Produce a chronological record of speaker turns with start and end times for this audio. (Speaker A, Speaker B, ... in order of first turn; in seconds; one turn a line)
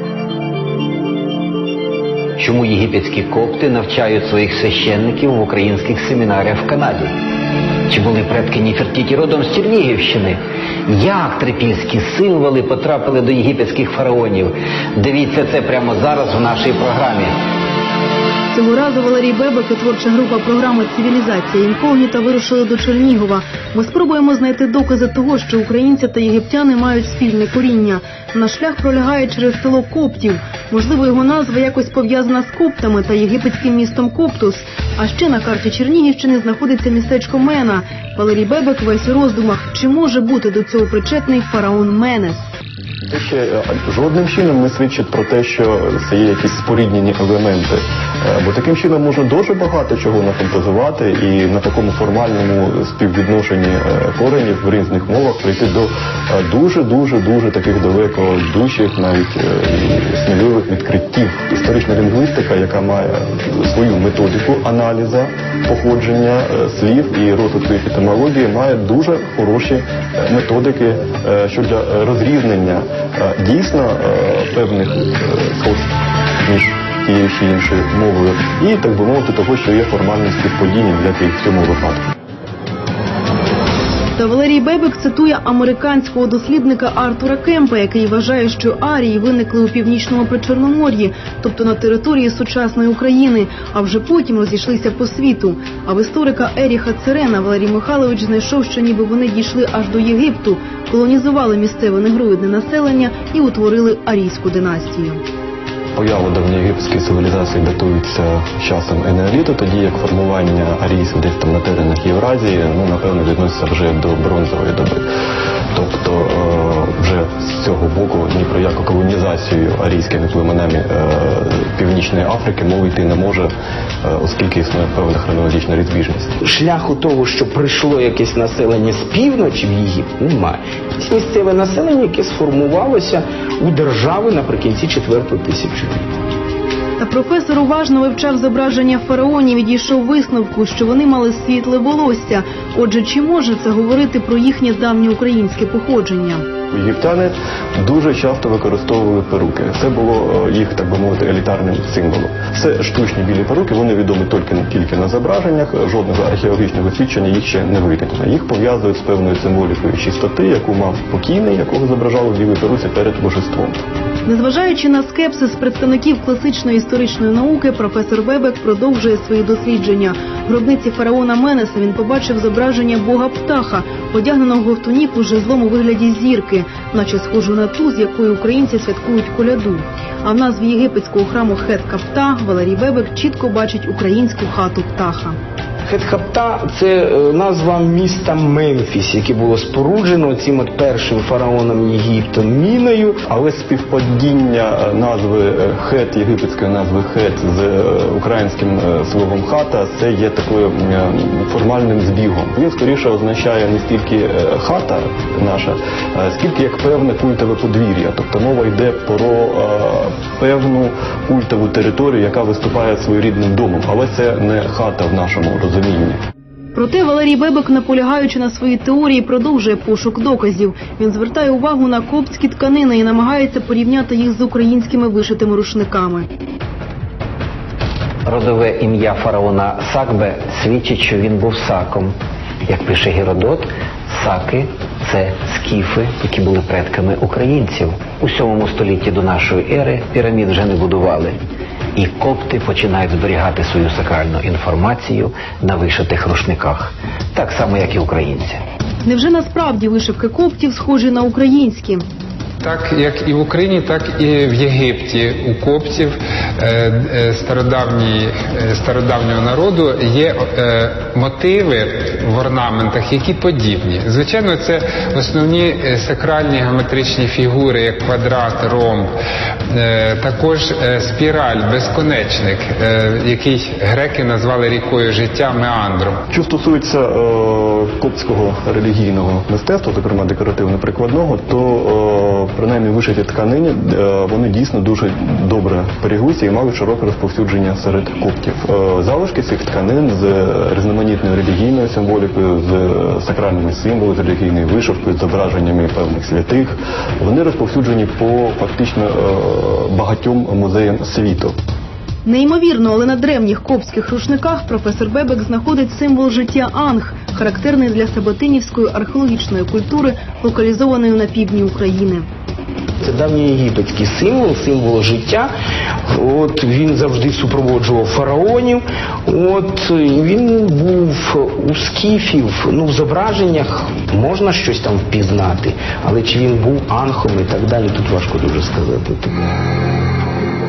Speaker A: 2.4-7.1
Speaker A: 7.9-17.3
Speaker B: 18.5-42.5
Speaker C: 43.1-82.1
Speaker B: 84.2-105.2
Speaker C: 105.9-115.0
Speaker C: 115.7-123.5
Speaker C: 124.0-126.3
Speaker D: 126.4-136.0
Speaker B: 137.0-146.4
Speaker C: 146.7-163.8
Speaker B: 164.2-185.4
Speaker D: 185.8-193.2
Speaker C: 193.3-216.2
Speaker B: 216.7-226.3
Speaker A: 228.2-232.1
Speaker A: 232.7-241.3
Speaker A: 241.9-248.6
Speaker B: 249.0-252.0
Speaker E: 252.6-269.1
Speaker E: 269.7-276.2
Speaker C: 276.3-301.5
Speaker B: 302.2-312.2
Speaker D: 313.0-315.5
Speaker D: 316.1-329.4